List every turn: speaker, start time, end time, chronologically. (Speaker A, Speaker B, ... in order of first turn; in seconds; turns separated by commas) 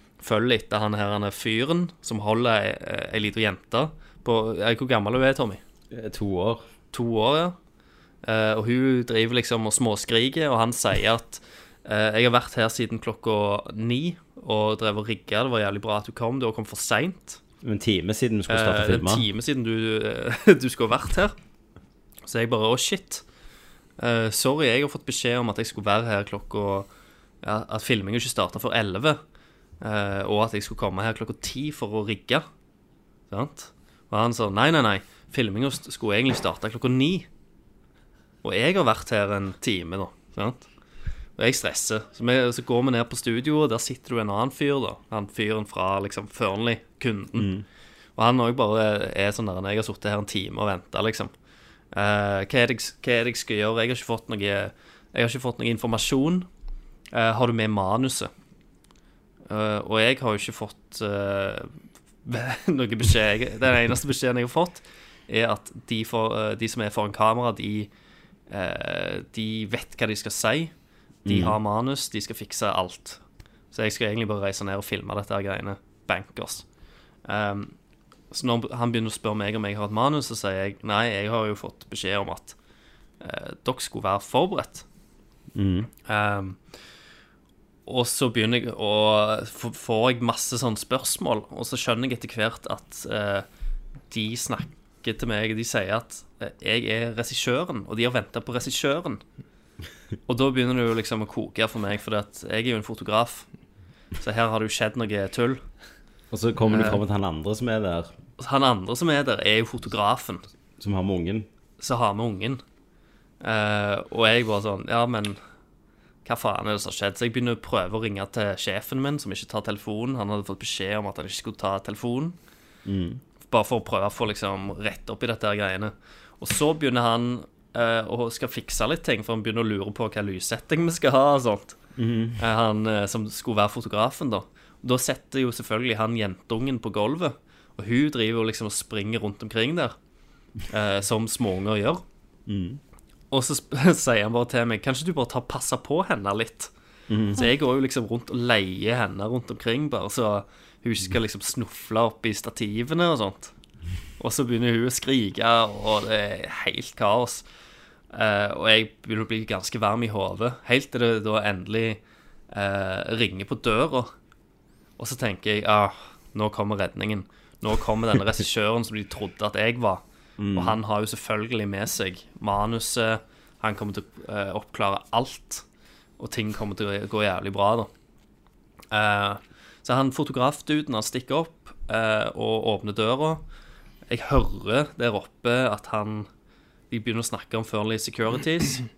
Speaker A: 0.2-5.6, Speaker B: 5.9-6.6, Speaker A: 6.9-7.5, Speaker A: 8.2-17.4, Speaker B: 17.6-19.3, Speaker A: 18.5-21.4, Speaker A: 22.2-23.2, Speaker A: 24.0-26.9, Speaker A: 27.4-29.2, Speaker A: 29.8-32.5, Speaker A: 33.3-37.3, Speaker A: 38.4-40.7, Speaker A: 41.4-47.5, Speaker B: 47.4-47.6, Speaker A: 48.2-51.3, Speaker A: 51.9-56.5, Speaker A: 57.1-58.3, Speaker A: 59.5-61.7, Speaker A: 62.2-67.9, Speaker A: 68.5-70.7, Speaker B: 71.2-71.6, Speaker A: 71.3-73.2, Speaker A: 73.7-76.7, Speaker A: 77.2-77.8, Speaker A: 78.3-82.6, Speaker A: 83.2-84.8, Speaker B: 85.5-85.9, Speaker A: 86.1-86.6, Speaker A: 87.9-93.5, Speaker A: 94.1-99.2, Speaker A: 100.3-103.5, Speaker A: 104.2-105.6, Speaker B: 106.3-108.1, Speaker A: 106.7-107.0, Speaker A: 108.4-110.5, Speaker B: 110.8-111.5, Speaker A: 111.8-112.6, Speaker A: 113.4-115.4, Speaker A: 116.2-122.4, Speaker B: 122.9-123.2, Speaker A: 123.5-131.8, Speaker B: 132.0-132.4, Speaker A: 132.4-139.9, Speaker A: 140.7-142.0, Speaker B: 142.5-142.8, Speaker A: 143.3-146.7, Speaker B: 147.1-147.5, Speaker A: 147.3-153.5, Speaker A: 154.2-157.4, Speaker A: 158.1-162.0, Speaker A: 162.5-164.1, Speaker A: 165.0-170.0, Speaker B: 170.4-170.8, Speaker A: 170.5-175.6, Speaker A: 176.2-177.9, Speaker A: 178.9-183.4, Speaker A: 184.1-186.3, Speaker A: 186.9-188.9